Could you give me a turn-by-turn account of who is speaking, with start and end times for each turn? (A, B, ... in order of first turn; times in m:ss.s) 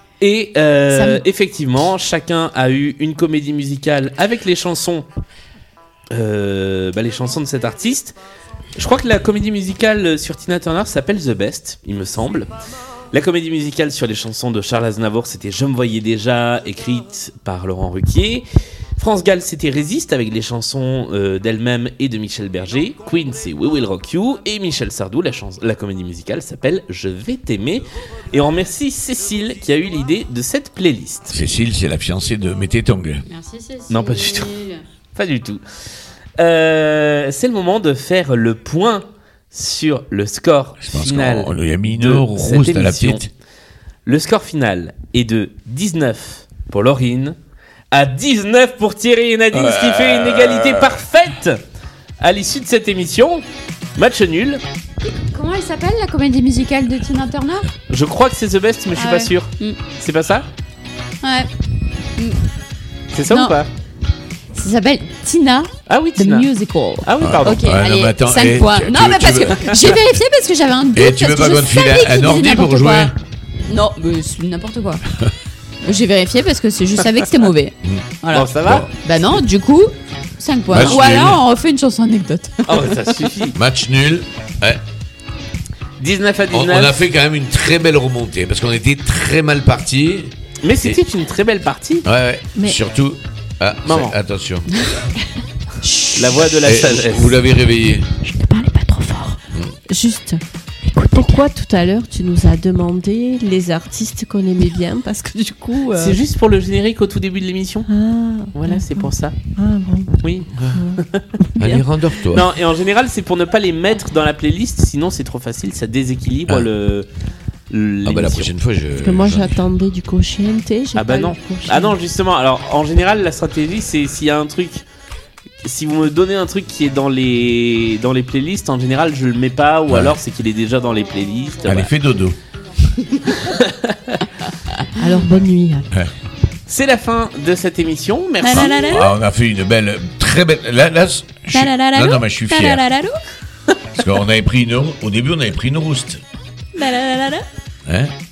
0:00.2-0:05.1 A
0:00.9-0:01.2 B
0:06.1-0:08.2 A
0:08.8-0:12.5 A
0:13.1-0:31.4 A
0:31.3-0:33.2 C
0:33.3-0:34.8 B
0:33.9-0:34.5 A
0:35.2-0:35.6 A
0:36.4-0:43.3 A
0:40.8-0:43.3 C
0:44.1-0:47.4 A
0:47.9-0:51.6 A
0:49.5-0:51.0 C
0:52.2-0:53.4 A
0:54.0-0:54.6 A
0:55.0-0:57.7 B
0:57.9-1:00.5 A
0:59.0-0:59.8 B
1:01.2-1:01.5 B
1:02.2-1:02.4 B
1:03.1-1:03.7 A
1:03.3-1:03.6 B
1:04.6-1:13.1 B
1:05.9-1:06.5 A
1:07.0-1:07.6 A
1:07.2-1:10.2 C
1:10.9-1:13.2 C
1:13.7-1:15.0 B
1:15.8-1:18.5 B
1:18.3-1:18.9 A
1:18.6-1:18.9 C
1:19.0-1:23.2 B
1:20.7-1:21.4 C
1:22.7-1:23.6 A
1:23.6-1:24.8 C
1:26.0-1:27.0 A
1:26.5-1:31.0 C
1:30.6-1:32.1 A
1:32.0-1:34.8 C
1:33.9-1:34.2 A
1:35.8-1:36.5 B
1:36.1-1:37.4 A
1:36.6-1:38.1 C
1:38.2-1:46.2 D
1:46.0-1:47.9 A
1:47.9-1:51.9 D
1:48.5-1:49.4 A
1:50.2-1:51.3 A
1:50.6-1:50.9 C
1:51.6-1:52.5 C
1:52.3-1:57.1 A
1:57.7-1:58.5 A
1:58.0-1:59.5 C
1:59.0-2:02.0 D
2:01.0-2:04.8 A
2:05.6-2:11.9 A
2:09.9-2:10.2 C
2:11.6-2:12.4 C
2:13.2-2:14.3 A
2:15.0-2:15.9 D
2:16.7-2:19.1 A
2:18.4-2:19.0 B
2:18.5-2:22.9 C
2:21.5-2:23.1 B
2:24.0-2:26.2 C
2:26.8-2:27.3 B
2:27.9-2:28.1 C